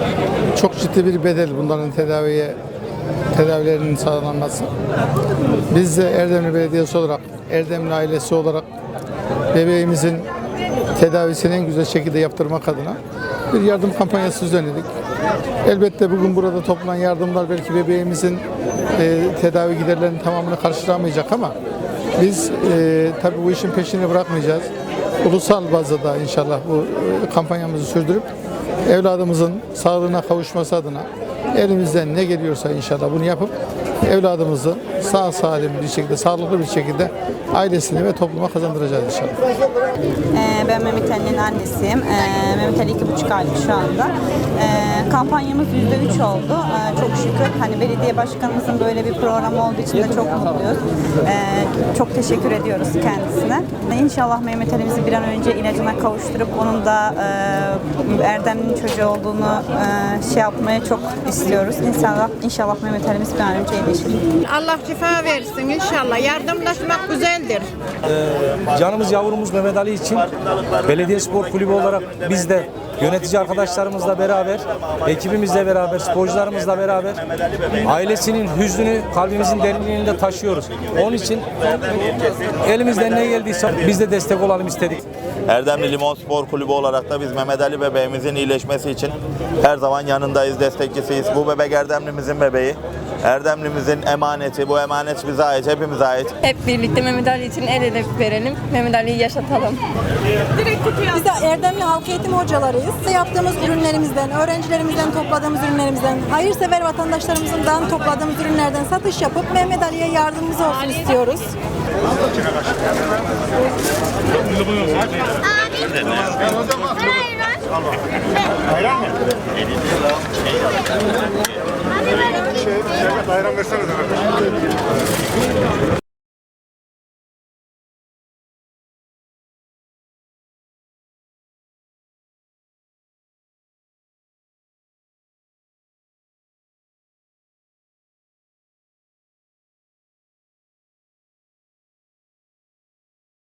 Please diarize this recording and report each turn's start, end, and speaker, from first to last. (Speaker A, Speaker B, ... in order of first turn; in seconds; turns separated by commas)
Speaker A: 0.5-2.6, Speaker A: 3.3-4.7, Speaker A: 5.7-8.7, Speaker A: 9.5-10.3, Speaker A: 10.9-13.0, Speaker A: 13.5-14.9, Speaker A: 15.6-18.4, Speaker A: 18.9-21.5, Speaker A: 22.1-24.7, Speaker A: 25.2-28.3, Speaker A: 28.9-33.5, Speaker A: 34.0-39.3, Speaker B: 40.3-64.2, Speaker C: 64.4-67.7, Speaker D: 68.1-85.0, Speaker E: 85.5-96.3, Speaker F: 96.4-99.8, Speaker G: 100.9-111.5